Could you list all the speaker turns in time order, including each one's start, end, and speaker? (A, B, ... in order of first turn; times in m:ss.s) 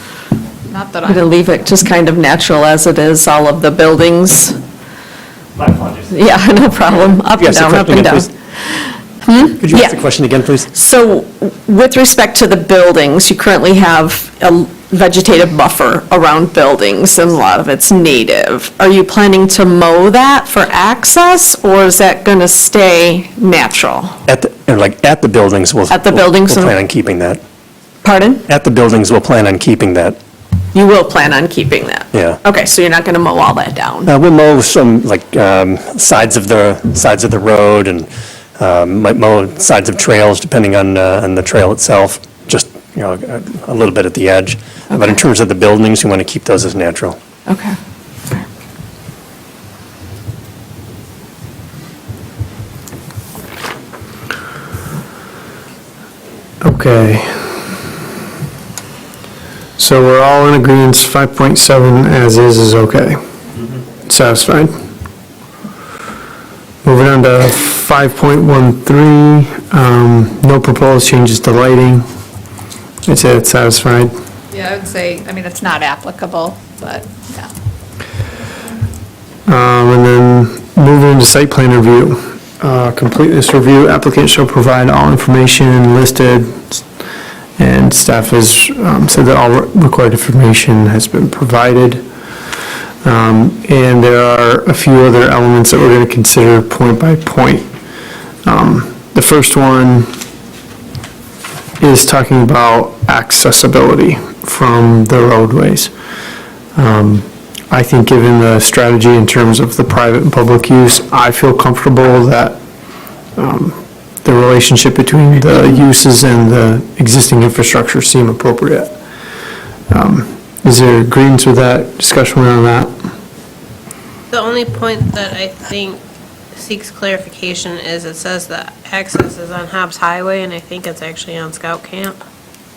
0:00.7-0:01.3 A
0:01.0-0:04.6 B
0:05.6-0:06.2 C
0:06.1-0:10.0 B
0:07.1-0:08.3 C
0:09.6-0:10.7 C
0:10.7-0:24.2 B
0:24.3-0:27.4 C
0:25.9-0:26.7 B
0:28.0-0:28.4 B
0:28.5-0:30.2 C
0:30.7-0:34.1 B
0:32.1-0:32.4 C
0:34.1-0:47.2 C
0:47.5-0:47.8 B
0:56.6-0:57.5 D
0:59.8-1:03.2 D
1:04.1-1:04.7 D
1:06.8-1:12.0 D
1:13.1-1:14.1 D
1:14.5-1:17.5 A
1:19.5-1:26.8 D
1:27.6-1:32.0 D
1:33.0-1:37.7 D
1:38.4-1:40.1 D
1:41.8-1:45.9 D
1:46.8-1:52.6 D
1:53.4-1:58.9 D
1:59.9-2:02.9 D
2:04.3-2:06.0 E
2:06.5-2:12.2 E